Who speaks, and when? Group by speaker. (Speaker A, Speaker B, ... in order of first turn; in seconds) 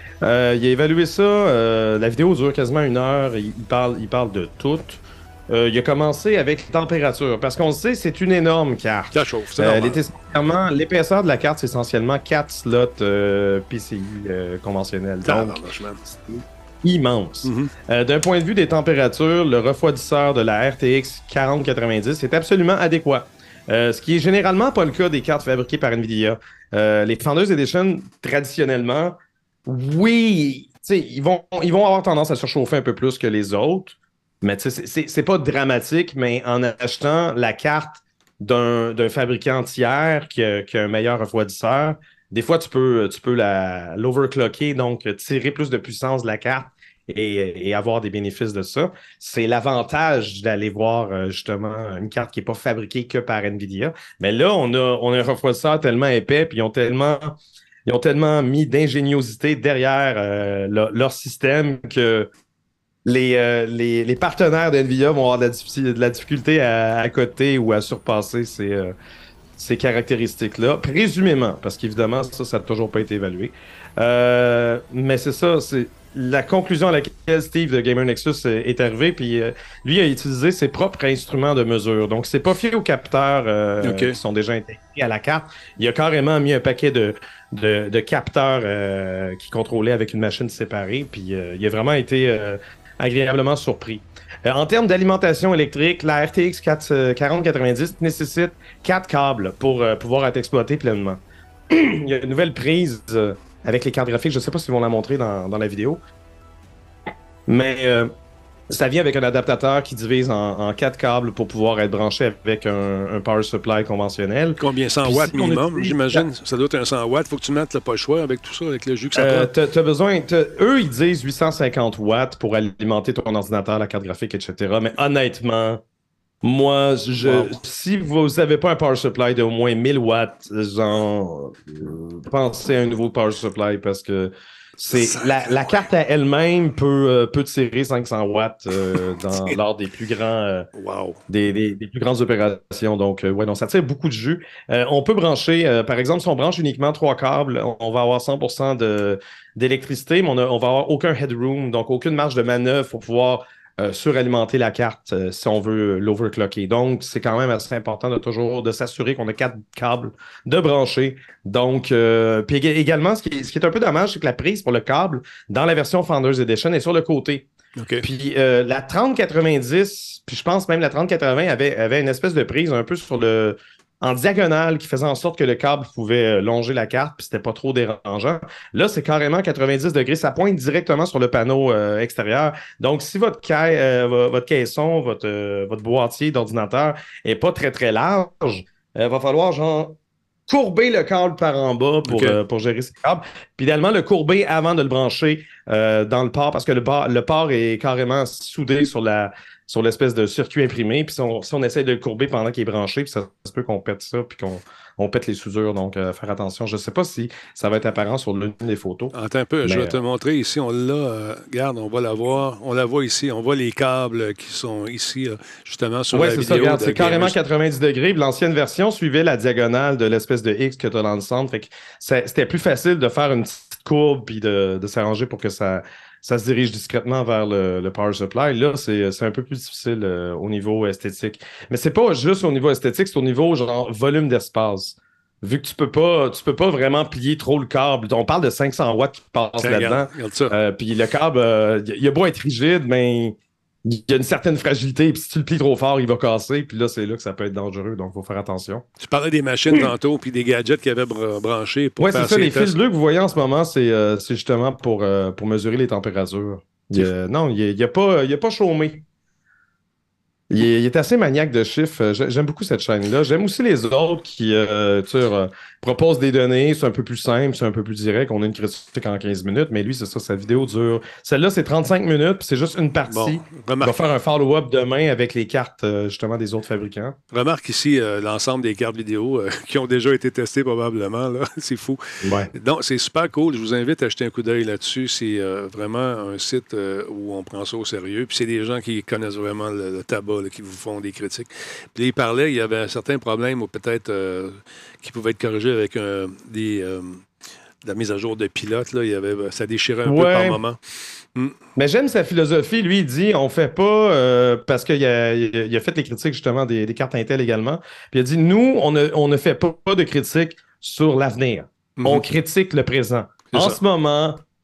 Speaker A: 0.2-62.3, 63.0-68.9, 69.6-106.0, 107.5-108.1, 108.7-116.3, 119.2-125.8, 126.4-140.7, 141.3-167.5, 168.0-190.0, 190.5-209.1, 209.7-210.0, 216.1-248.8, 252.0-259.0, 260.5-277.2, 282.2-282.5, 300.1-300.6, 301.8-314.4
Speaker B: 9.1-10.0, 15.2-16.0, 17.4-17.7, 83.8-84.2, 114.6-119.5, 127.2-127.6, 134.9-135.9, 140.8-141.2, 167.8-168.1, 192.1-192.4, 209.1-217.4, 239.6-240.6, 249.0-252.8, 273.1-274.0, 277.3-282.0, 282.5-297.2, 297.8-300.8, 312.0-312.2, 313.5-313.8